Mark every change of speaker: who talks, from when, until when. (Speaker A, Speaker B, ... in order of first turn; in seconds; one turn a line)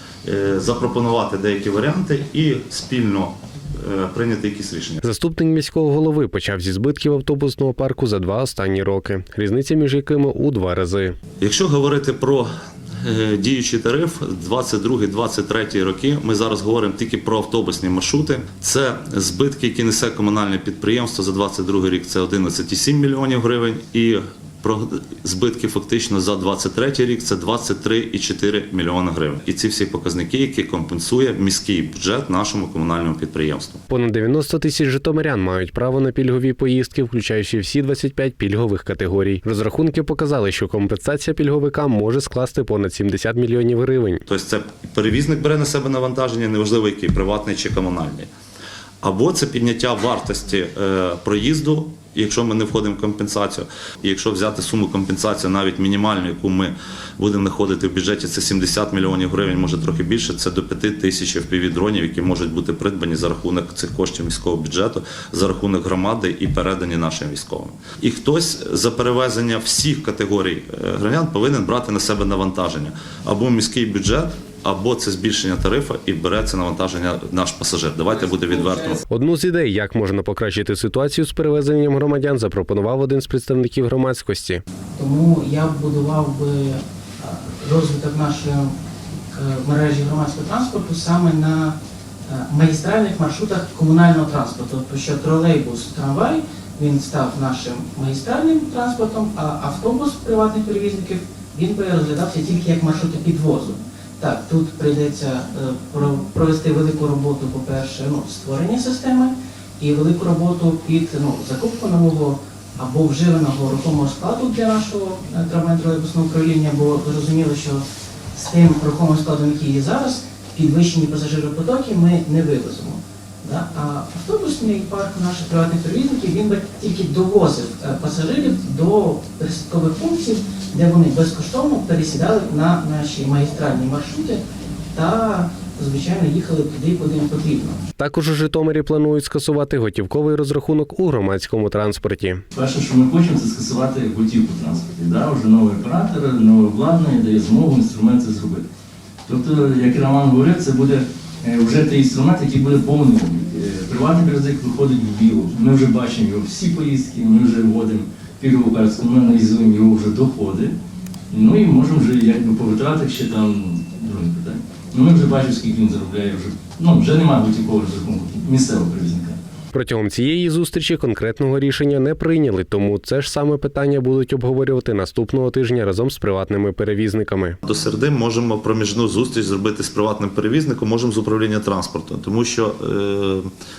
Speaker A: 0.2-5.0
Speaker B: 5.0-11.2
Speaker A: 11.4-12.5
Speaker A: 13.0-33.8
Speaker B: 33.9-44.2
Speaker A: 44.3-48.3
Speaker A: 49.0-79.0
Speaker B: 79.1-84.6
Speaker C: 84.9-88.7
Speaker C: 89.3-137.8
Speaker B: 138.0-142.4
Speaker D: 142.5-148.6
Speaker D: 149.3-160.7
Speaker D: 161.3-169.4
Speaker B: 169.7-177.6
Speaker A: 177.6-183.5